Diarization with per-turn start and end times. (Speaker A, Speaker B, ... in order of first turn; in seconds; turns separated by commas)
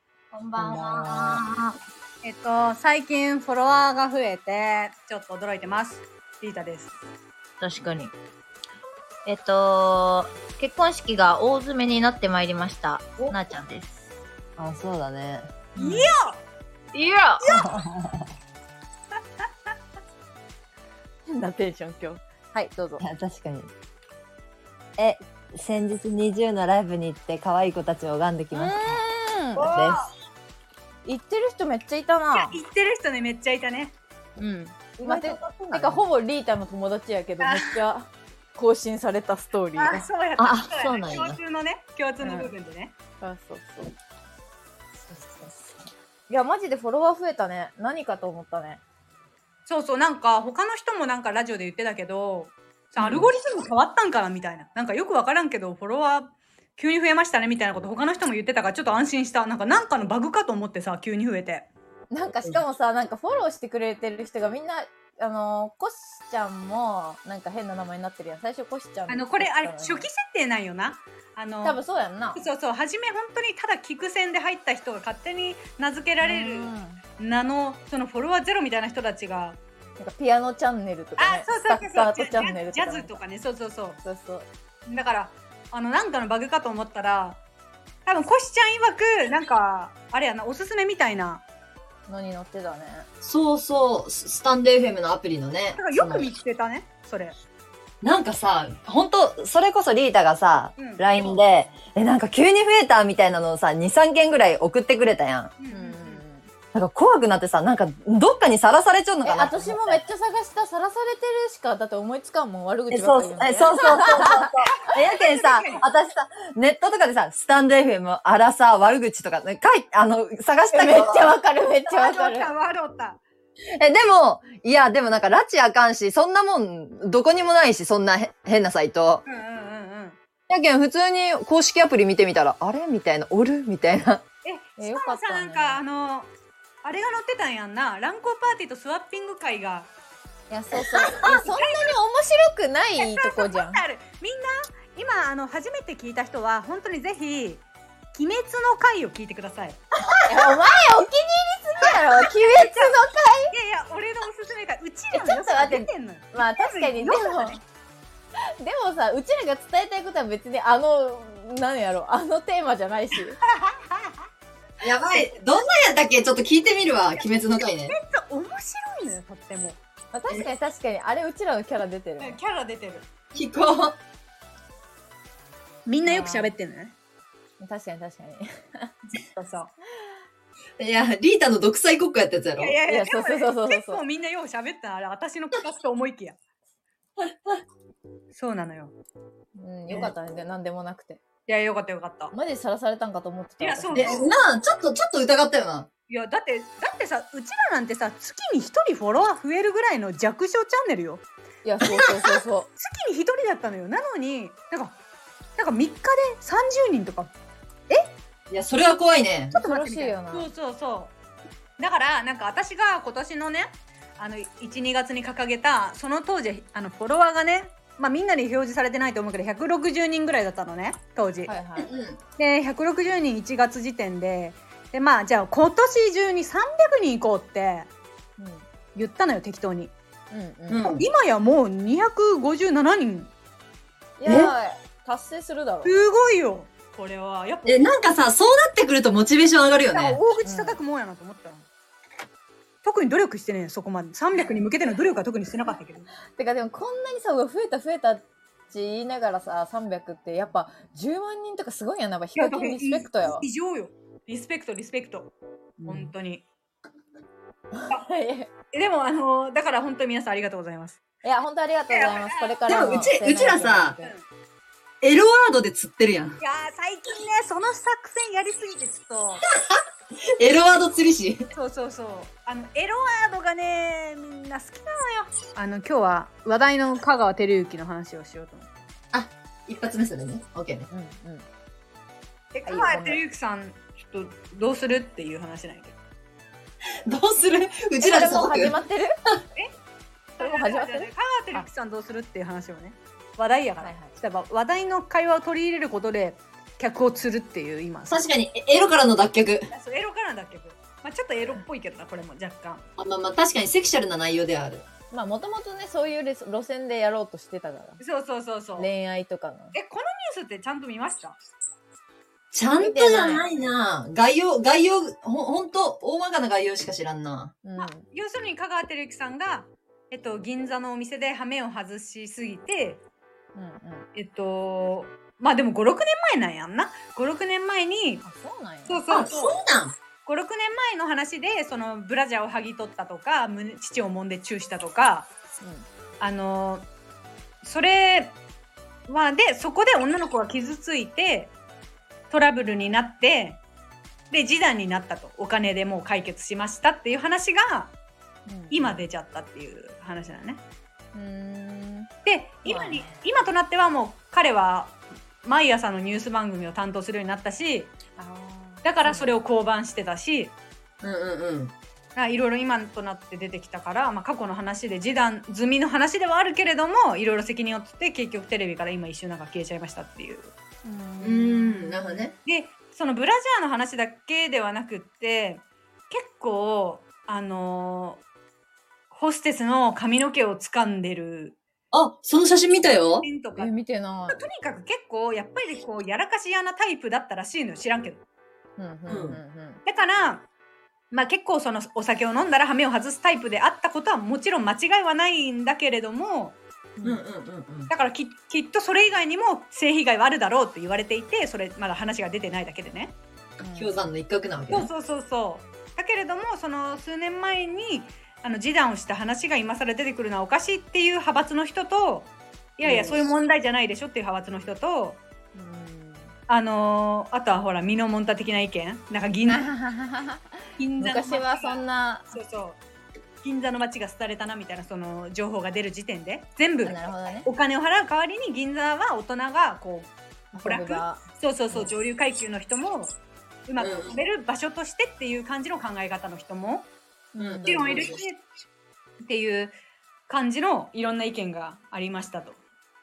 Speaker A: 0.3-1.4, Speaker B: 0.6-1.7, Speaker B: 2.2-7.0, Speaker A: 7.6-8.1, Speaker A: 9.3-14.1, Speaker C: 14.6-16.0, Speaker D: 15.8-16.1, Speaker B: 15.8-16.4, Speaker A: 16.9-17.4, Speaker C: 17.5-18.3, Speaker D: 21.3-23.0, Speaker C: 23.0-23.7, Speaker C: 25.0-29.0, Speaker D: 28.5-29.7, Speaker B: 29.6-30.1, Speaker C: 29.6-30.1, Speaker D: 31.1-32.6, Speaker B: 32.3-34.0, Speaker D: 34.5-40.0, Speaker C: 35.0-36.0, Speaker B: 37.4-37.8, Speaker B: 39.8-42.9, Speaker C: 40.4-41.4, Speaker D: 42.2-42.5, Speaker D: 43.2-43.9, Speaker D: 46.3-48.8, Speaker B: 49.7-61.7, Speaker C: 53.0-53.3, Speaker D: 62.1-70.1, Speaker B: 69.1-71.8, Speaker D: 71.6-72.4, Speaker B: 72.3-79.6, Speaker D: 76.2-77.0, Speaker D: 80.0-83.2, Speaker B: 81.2-84.0, Speaker D: 84.0-84.5, Speaker B: 84.9-87.4, Speaker B: 88.1-91.5, Speaker D: 92.1-93.1, Speaker C: 93.2-96.3, Speaker B: 95.8-97.4, Speaker C: 98.0-105.5, Speaker B: 100.8-101.1, Speaker B: 105.6-106.2, Speaker D: 105.7-106.5, Speaker C: 106.7-110.0, Speaker D: 109.2-114.5, Speaker C: 112.9-121.4, Speaker B: 113.8-115.8, Speaker D: 120.7-122.5, Speaker B: 121.9-123.2, Speaker C: 123.7-129.2, Speaker B: 129.2-130.2, Speaker C: 130.5-134.2, Speaker B: 134.4-136.3, Speaker D: 134.8-135.8, Speaker B: 136.8-139.9, Speaker D: 140.5-143.8, Speaker B: 141.2-142.0, Speaker B: 143.0-147.6, Speaker B: 148.1-149.8, Speaker D: 150.3-153.5, Speaker B: 152.2-153.0, Speaker B: 153.5-157.6, Speaker D: 155.1-157.6, Speaker D: 158.4-163.4, Speaker B: 163.5-164.2, Speaker C: 164.8-167.9, Speaker B: 167.9-169.8, Speaker D: 170.1-172.4, Speaker B: 172.2-173.1, Speaker C: 173.3-174.0, Speaker B: 175.9-176.9, Speaker D: 176.0-176.5, Speaker D: 177.6-178.9, Speaker B: 179.1-179.7, Speaker C: 180.8-182.8, Speaker B: 182.6-186.4, Speaker D: 182.9-184.0, Speaker C: 187.2-187.6, Speaker B: 188.3-188.9, Speaker D: 189.6-191.2, Speaker B: 191.5-192.3, Speaker D: 192.3-194.2, Speaker B: 193.6-194.3, Speaker C: 193.9-195.9, Speaker B: 196.1-201.2, Speaker D: 201.6-202.7, Speaker C: 201.8-202.1, Speaker B: 202.8-205.0, Speaker B: 205.6-207.3, Speaker C: 208.5-209.6, Speaker B: 209.5-211.2, Speaker D: 209.5-210.5, Speaker B: 211.8-221.6, Speaker D: 221.5-221.9, Speaker C: 221.8-222.2, Speaker B: 222.4-227.9, Speaker D: 228.4-228.7, Speaker B: 228.9-229.9, Speaker D: 230.3-230.9, Speaker C: 230.7-231.1, Speaker B: 230.8-233.3, Speaker D: 234.2-235.9, Speaker C: 234.3-234.5, Speaker B: 235.8-237.9, Speaker C: 237.7-240.2, Speaker B: 239.9-241.7, Speaker D: 240.4-240.8, Speaker B: 242.8-246.1, Speaker D: 246.4-253.4, Speaker B: 252.3-255.3, Speaker C: 255.8-256.1, Speaker B: 255.9-256.4, Speaker D: 257.7-258.5, Speaker B: 258.7-261.0, Speaker D: 261.2-264.1, Speaker B: 261.9-262.6, Speaker C: 262.7-264.0, Speaker B: 264.0-264.3, Speaker C: 265.0-266.4, Speaker B: 266.4-269.5, Speaker C: 270.4-271.5, Speaker B: 271.5-278.9, Speaker C: 279.1-280.9, Speaker D: 280.9-281.5, Speaker B: 282.5-286.0, Speaker D: 282.7-283.2, Speaker C: 287.1-288.8, Speaker D: 288.0-289.2, Speaker B: 290.4-298.2, Speaker D: 290.4-291.7, Speaker D: 293.8-294.1, Speaker C: 298.1-299.7, Speaker B: 299.7-302.8, Speaker C: 303.0-304.9, Speaker D: 305.1-308.0, Speaker B: 308.0-308.9, Speaker D: 308.8-309.8, Speaker B: 309.7-311.4, Speaker C: 312.5-317.5, Speaker D: 312.8-313.5, Speaker D: 317.6-318.0, Speaker B: 317.8-323.0, Speaker D: 323.6-324.1, Speaker B: 324.1-328.2, Speaker D: 328.2-329.0, Speaker B: 328.9-329.5, Speaker C: 329.1-329.9, Speaker B: 330.2-335.3, Speaker D: 335.6-335.9, Speaker B: 336.2-336.9, Speaker B: 337.6-338.4, Speaker B: 339.1-341.5, Speaker B: 342.3-343.6, Speaker B: 344.3-347.9, Speaker D: 348.5-348.9, Speaker B: 348.7-350.6, Speaker D: 351.1-352.1, Speaker B: 352.2-357.9, Speaker D: 352.6-353.2, Speaker D: 358.2-359.3, Speaker B: 358.8-360.6, Speaker C: 361.0-361.8, Speaker B: 362.2-370.5, Speaker D: 370.8-372.2, Speaker C: 371.2-372.4, Speaker B: 372.4-378.2, Speaker B: 379.1-381.6, Speaker C: 381.9-383.3, Speaker B: 383.2-383.7, Speaker D: 383.6-384.4, Speaker B: 384.3-388.2, Speaker D: 388.8-389.8, Speaker C: 389.1-389.4, Speaker B: 389.9-390.5, Speaker B: 391.1-396.6, Speaker D: 397.0-397.2, Speaker C: 397.0-397.9, Speaker B: 397.9-403.2, Speaker D: 403.6-404.0, Speaker C: 403.8-404.9, Speaker B: 404.7-415.2, Speaker D: 415.6-416.4, Speaker B: 416.5-419.7, Speaker D: 419.5-420.5, Speaker B: 420.8-422.8, Speaker D: 421.0-422.4, Speaker B: 423.4-433.1, Speaker D: 426.9-427.5, Speaker D: 430.5-431.2, Speaker B: 433.7-436.9, Speaker C: 433.8-434.2, Speaker D: 437.3-438.1, Speaker C: 437.4-438.2, Speaker B: 437.6-438.4, Speaker B: 439.2-439.8, Speaker B: 440.3-442.6